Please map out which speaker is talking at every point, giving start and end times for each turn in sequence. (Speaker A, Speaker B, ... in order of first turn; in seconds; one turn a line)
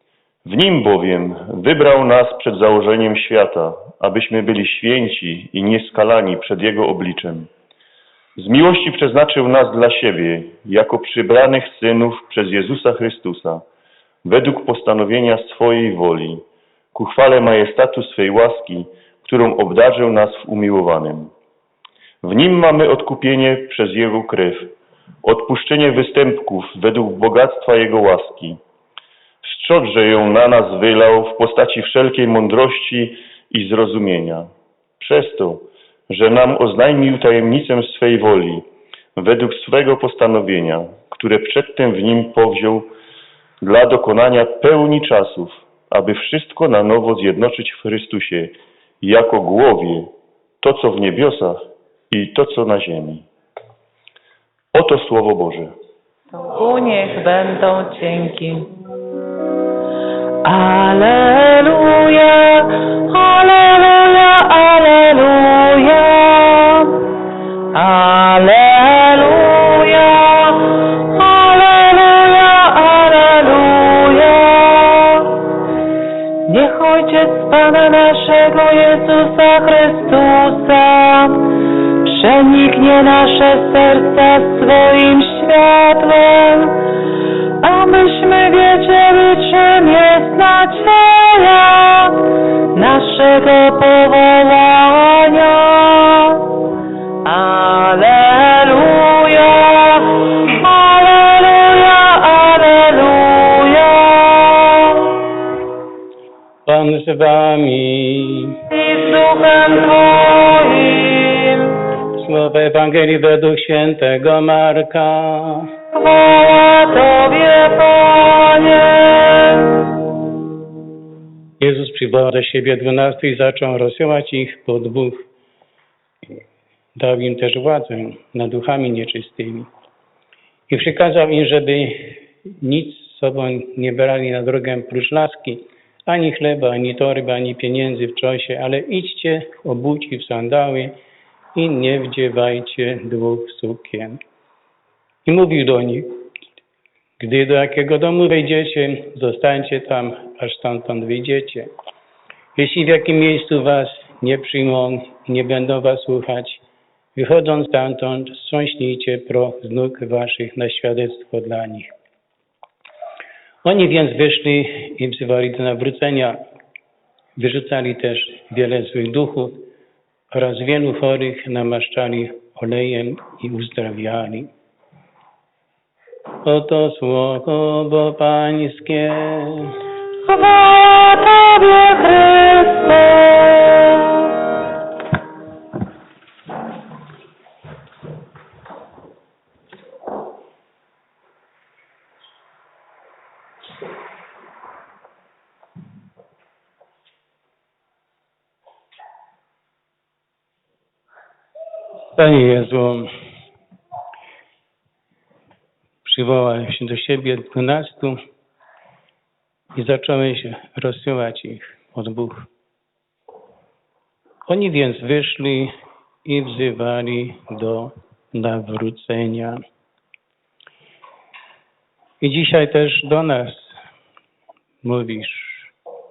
Speaker A: 0.5-7.5
Speaker A: 8.4-13.6
Speaker A: 14.2-16.4
Speaker A: 16.9-21.3
Speaker A: 22.2-28.6
Speaker A: 29.4-34.5
Speaker A: 35.0-42.9
Speaker A: 43.6-50.1
Speaker A: 50.6-51.6
Speaker A: 52.1-53.2
Speaker A: 54.7-55.7
Speaker B: 56.5-58.7
Speaker B: 60.4-67.1
Speaker B: 67.7-75.4
Speaker B: 76.5-81.5
Speaker B: 82.0-86.8
Speaker B: 87.6-96.5
Speaker B: 97.2-105.1
Speaker C: 106.7-108.5
Speaker B: 108.7-111.7
Speaker C: 112.2-115.7
Speaker B: 115.9-119.7
Speaker C: 121.6-125.2
Speaker C: 127.0-129.7
Speaker C: 130.7-140.9
Speaker C: 141.6-144.2
Speaker C: 145.3-146.1
Speaker C: 147.2-151.7
Speaker C: 152.6-156.6
Speaker C: 157.2-161.9
Speaker C: 163.6-166.4
Speaker C: 167.4-169.7
Speaker C: 170.3-174.5
Speaker C: 176.4-179.7
Speaker B: 180.2-184.0
Speaker C: 202.2-203.1
Speaker C: 206.1-208.2
Speaker C: 209.7-212.5
Speaker C: 214.5-215.7
Speaker C: 216.2-219.6
Speaker C: 222.2-223.8
Speaker C: 224.8-225.7